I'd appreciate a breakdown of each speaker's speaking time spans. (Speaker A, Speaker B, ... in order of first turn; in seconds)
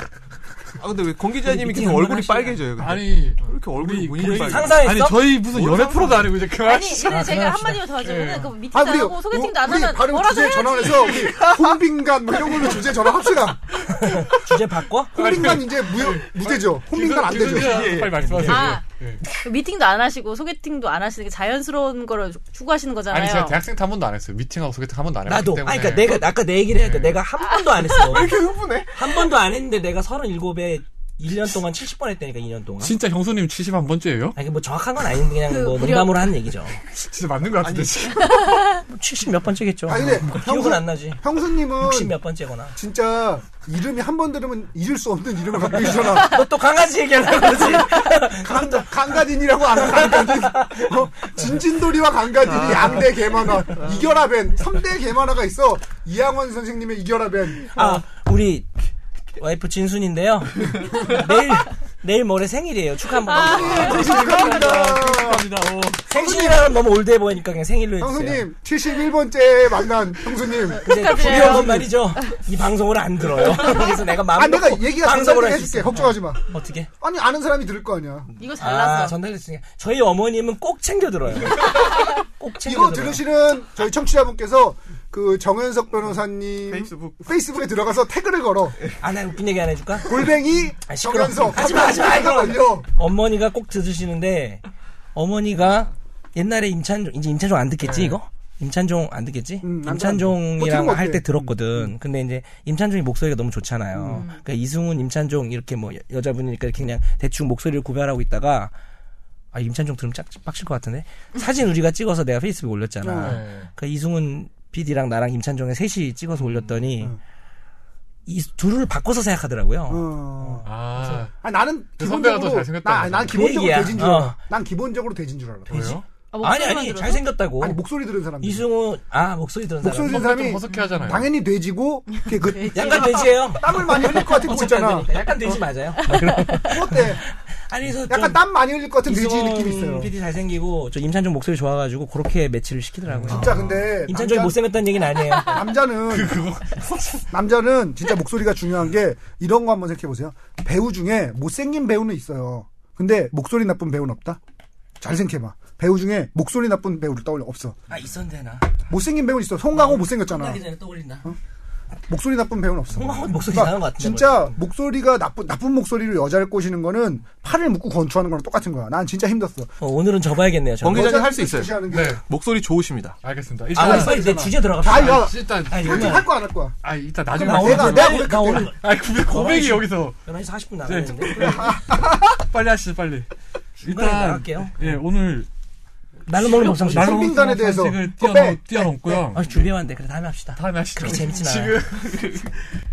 Speaker A: 0.8-6.4, 11.2-11.7, 17.4-18.8, 27.9-29.1, 37.6-38.2, 52.4-54.1, 86.7-87.2, 143.3-143.8, 170.8-173.2, 192.1-192.3
Speaker B: 1.4-2.6, 4.2-5.4, 7.1-7.8, 14.0-15.4, 25.3-28.4, 28.9-33.0, 34.4-36.8, 38.9-41.2, 41.8-42.8, 45.9-48.8, 49.8-50.9, 57.7-58.7, 59.4-64.1, 66.1-68.5, 70.8-76.9, 78.6-83.2, 89.0-90.4, 90.9-94.6, 95.2-108.7, 109.5-117.2, 118.3-120.6, 123.3-124.4, 125.8-127.8, 128.4-130.4, 132.7-138.4, 139.0-145.6, 157.9-158.7, 159.7-161.3, 162.9-164.5, 169.8-171.2, 173.7-176.3, 177.4-181.7, 183.9-185.0, 186.3-187.4, 189.3-191.8
Speaker C: 2.8-7.4, 8.0-8.5, 15.1-19.2, 23.1-26.3, 26.8-27.2, 32.8-34.4, 36.9-38.7, 63.5-66.1, 97.8-98.2, 113.2-113.7, 120.6-121.4, 122.0-123.8, 125.7-126.0, 130.1-131.3, 143.1-143.7, 146.1-147.3, 171.9-172.2, 173.2-176.3, 176.8-180.2, 180.8-185.5, 186.4-189.7, 190.6-192.4
Speaker D: 6.5-11.3, 18.4-23.6, 35.5-36.4, 38.2-38.8, 63.3-64.1, 70.8-71.9, 78.4-79.2, 104.1-104.4, 126.3-127.3, 132.1-133.4, 136.1-136.8
Speaker E: 8.7-13.7, 15.2-18.1, 39.9-42.2, 42.8-46.4, 47.9-57.8, 63.3-65.5, 66.1-66.7, 68.0-72.0, 74.2-76.5, 77.0-78.3, 82.6-88.8, 90.0-92.9, 99.6-101.9, 104.0-104.2, 113.0-113.4, 119.9-120.7, 121.4-126.0, 127.6-128.7, 129.8-135.6, 136.7-137.2, 138.1-140.1, 143.3-144.7, 145.4-146.4, 147.3-154.4, 155.0-157.8, 158.9-160.6, 162.1-169.7, 170.9-172.2, 173.8-176.8, 177.4-178.7, 181.6-181.9, 186.9-189.3